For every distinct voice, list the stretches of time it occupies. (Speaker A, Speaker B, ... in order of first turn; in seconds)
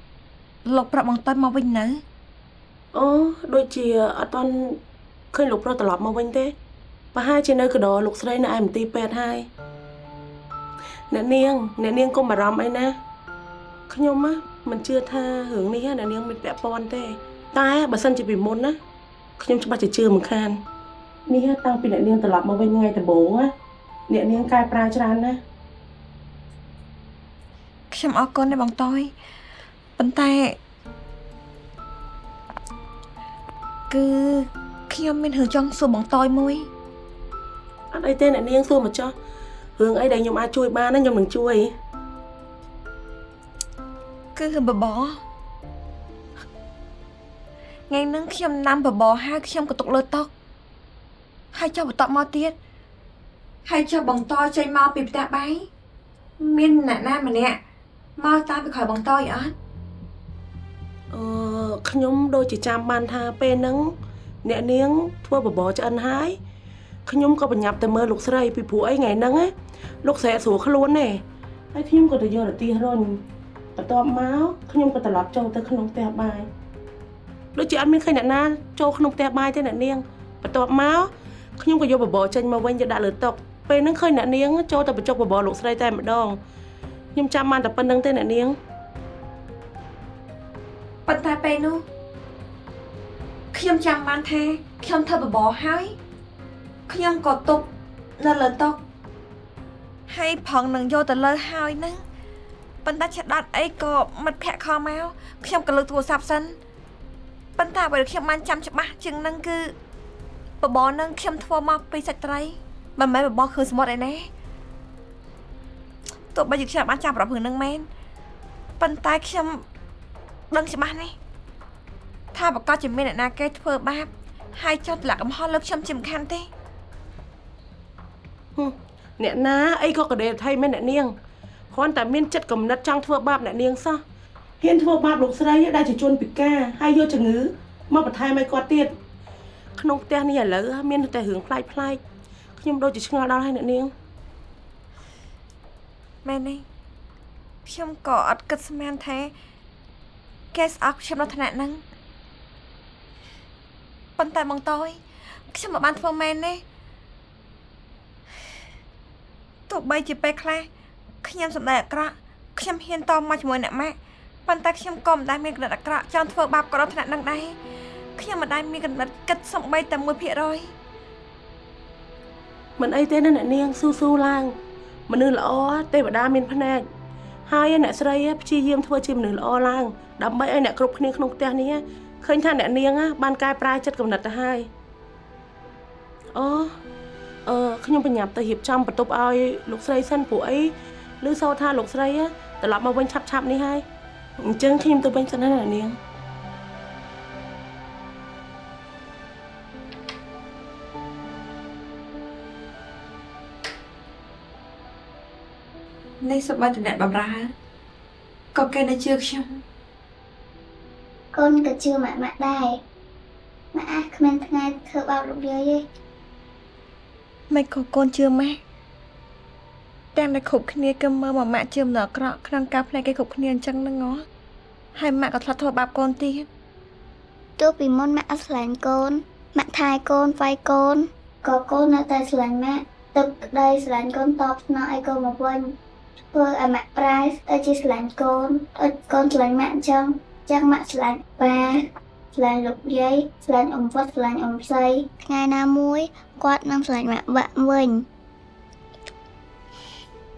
Speaker A: 0.6-2.0, 27.9-29.1, 30.0-30.6, 33.9-36.7, 44.3-45.2, 47.9-50.3, 51.5-52.5, 53.6-55.7, 56.4-57.6, 58.2-59.5, 91.0-91.8, 93.5-96.0, 96.9-98.8, 100.1-102.0, 102.8-106.6, 107.5-109.7, 110.6-114.3, 116.3-117.8, 118.8-119.6, 120.5-121.1, 122.3-126.5, 146.2-146.6, 147.6-149.3, 150.5-151.8, 154.2-155.0, 155.5-156.6, 159.7-160.7, 161.2-167.6, 168.2-170.7, 206.2-207.5, 208.5-209.6, 217.5-218.6, 220.1-224.2, 224.9-226.5
Speaker B: 2.9-4.8, 5.3-6.5, 7.1-9.5, 11.1-12.9, 13.9-18.8, 19.4-20.6, 21.3-23.5, 24.1-25.4, 37.9-39.1, 39.8-41.7, 61.1-63.9, 64.4-66.4, 67.0-69.5, 70.0-71.2, 71.7-73.2, 73.8-76.5, 77.5-86.4, 87.1-88.5, 128.6-131.1, 131.7-134.0, 134.6-138.9, 139.8-142.0, 142.6-143.9, 172.8-174.5, 175.1-176.8, 177.5-184.7, 186.3-186.7, 187.4-193.8, 194.4-195.9
Speaker C: 211.3-212.8, 213.7-215.8, 227.6-235.7, 236.3-248.1